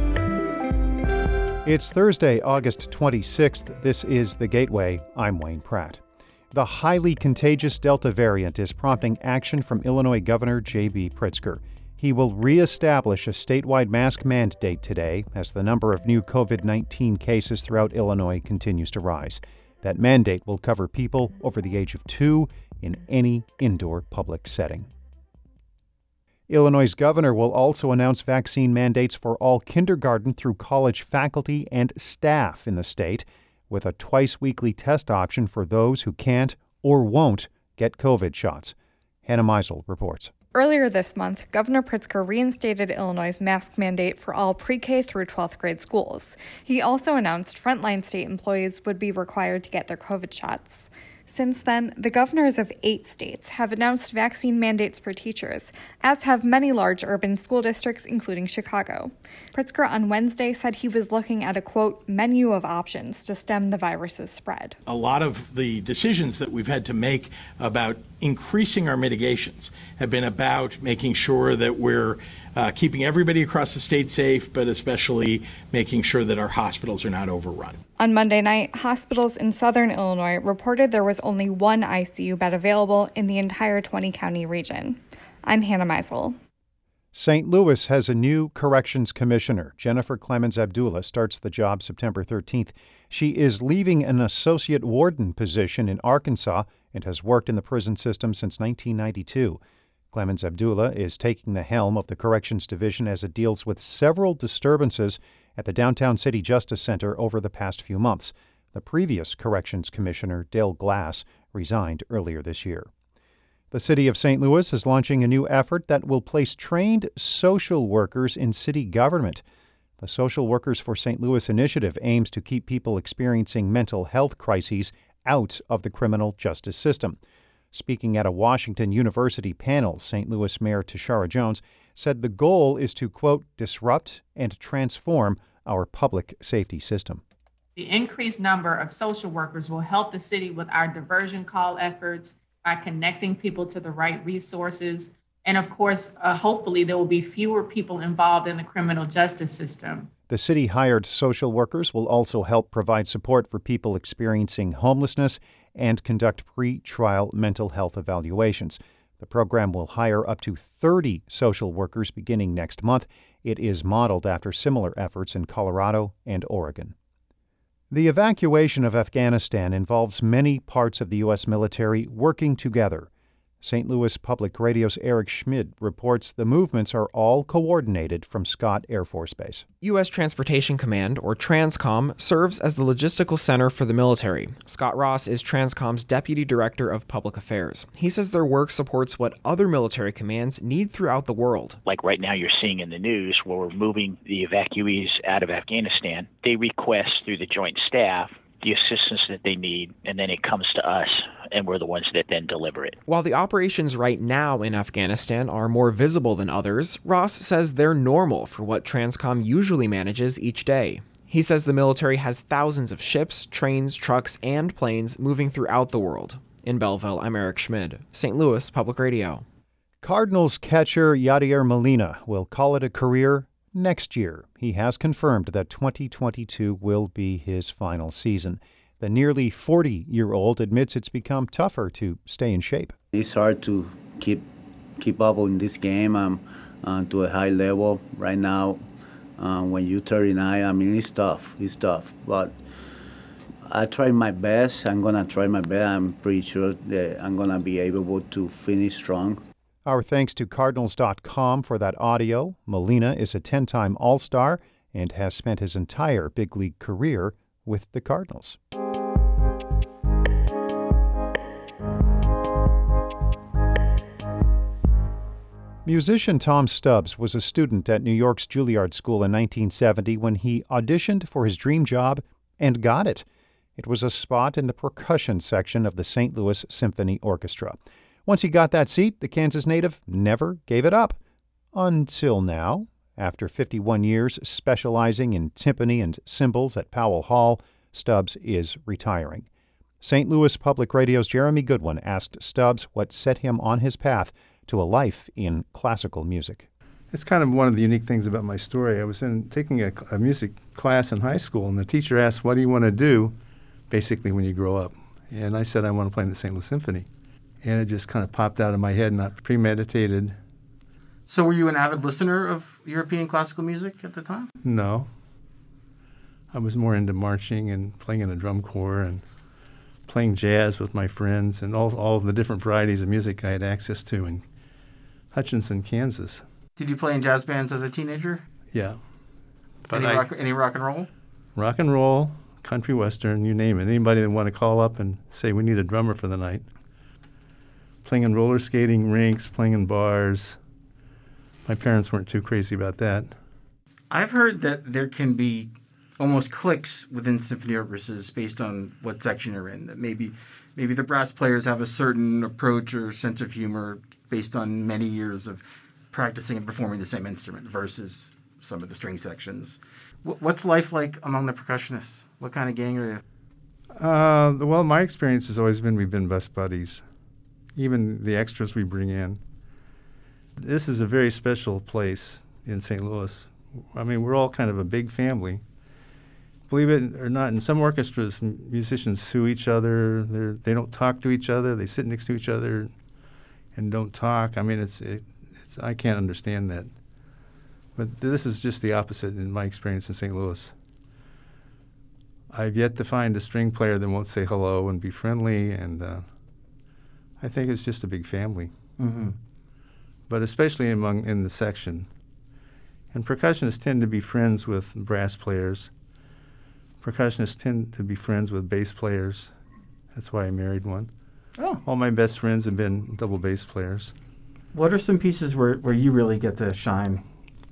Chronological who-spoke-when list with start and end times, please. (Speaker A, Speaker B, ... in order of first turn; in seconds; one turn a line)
Speaker A: 1.6-6.0
Speaker A: 6.5-24.9
Speaker A: 26.5-40.3
Speaker B: 40.5-64.8
Speaker C: 64.8-77.8
Speaker B: 78.0-86.3
Speaker A: 87.1-99.6
Speaker A: 100.1-112.9
Speaker A: 113.7-119.4
Speaker A: 120.0-127.2
Speaker A: 127.7-137.2
Speaker D: 137.8-150.1
Speaker A: 150.3-166.9
Speaker A: 167.9-173.1
Speaker A: 173.6-179.6
Speaker E: 179.8-191.8
Speaker F: 191.8-203.0
Speaker E: 203.1-219.4
Speaker A: 220.0-232.9
Speaker G: 233.1-234.4
Speaker G: 235.0-238.8
Speaker G: 239.4-242.6
Speaker G: 243.6-249.4
Speaker A: 249.8-258.6
Speaker A: 265.8-273.2
Speaker A: 273.8-281.2
Speaker A: 281.7-289.5
Speaker A: 290.0-296.7
Speaker H: 297.1-303.3
Speaker H: 303.9-307.1
Speaker H: 307.6-310.4
Speaker I: 311.3-314.5
Speaker H: 314.6-315.1
Speaker H: 316.5-319.2
Speaker H: 320.1-324.4
Speaker H: 325.3-326.4
Speaker I: 326.8-328.4
Speaker H: 328.7-329.0
Speaker H: 329.9-330.3
Speaker I: 329.9-331.1
Speaker H: 331.6-336.6
Speaker H: 338.0-340.6
Speaker H: 341.7-343.3
Speaker I: 344.1-363.2
Speaker H: 363.9-367.0
Speaker H: 367.8-369.4
Speaker H: 370.6-375.6
Speaker H: 376.7-382.9
Speaker H: 383.8-386.9
Speaker H: 387.9-390.7
Speaker H: 392.5-396.2
Speaker H: 397.4-398.7
Speaker I: 399.0-399.4
Speaker H: 400.3-402.1
Speaker H: 403.1-405.9
Speaker H: 407.0-409.5
Speaker H: 410.1-411.1
Speaker H: 411.8-414.1
Speaker I: 414.7-417.2